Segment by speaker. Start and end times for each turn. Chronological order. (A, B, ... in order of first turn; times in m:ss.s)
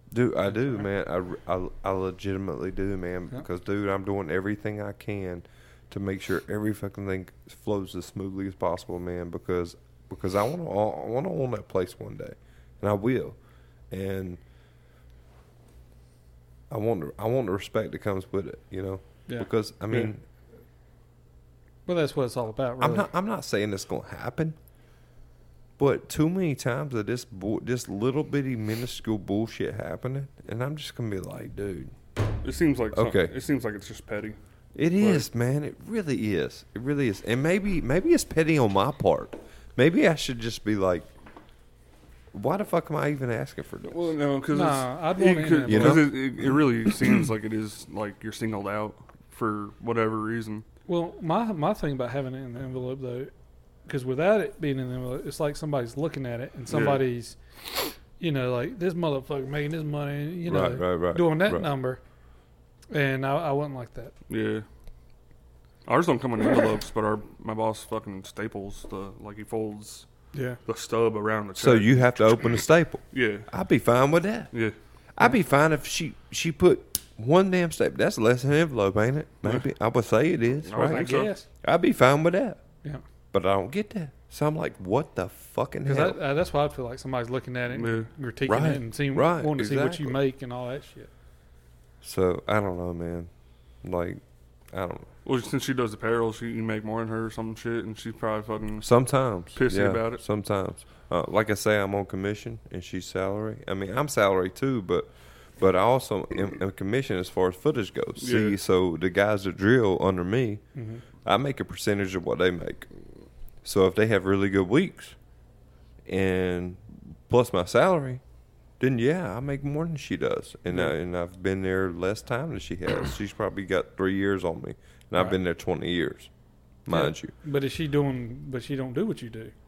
0:00.1-0:13.4 A
0:13.9-0:14.4 A
0:16.7-0:20.2 A
0:21.9-0:23.1 B
0:22.8-0:24.6 A
0:25.8-0:31.9 A
0:32.4-0:34.4 C
0:32.9-0:33.3 A
0:34.8-0:41.1 A
0:35.0-0:35.3 C
0:42.3-0:44.2 A
0:43.9-0:50.6 C
0:44.5-0:46.1 B
0:45.7-0:46.6 A
0:50.9-0:53.3 B
0:53.9-0:57.4 B
0:56.7-0:57.0 C
0:58.2-1:02.0 B
1:00.5-1:01.7 A
1:02.9-1:04.1 B
1:04.3-1:04.6 C
1:05.9-1:10.1 C
1:10.7-1:12.1 C
1:11.6-1:14.5 A
1:13.1-1:13.5 C
1:15.2-1:22.6 A
1:20.7-1:21.3 C
1:20.8-1:21.5 B
1:23.3-1:26.2 A
1:25.8-1:31.1 B
1:27.7-1:28.1 C
1:28.5-1:30.2 A
1:32.0-1:33.3 A
1:33.8-1:34.2 A
1:34.7-1:35.1 A
1:35.2-1:38.9 C
1:38.8-1:50.6 A
1:39.6-1:40.2 C
1:48.2-1:48.6 C
1:50.8-1:51.0 B
1:51.2-1:52.9 A
1:53.6-1:55.2 A
1:56.1-1:58.2 A
1:58.8-2:06.3 A
2:06.9-2:07.3 A
2:06.9-2:09.5 B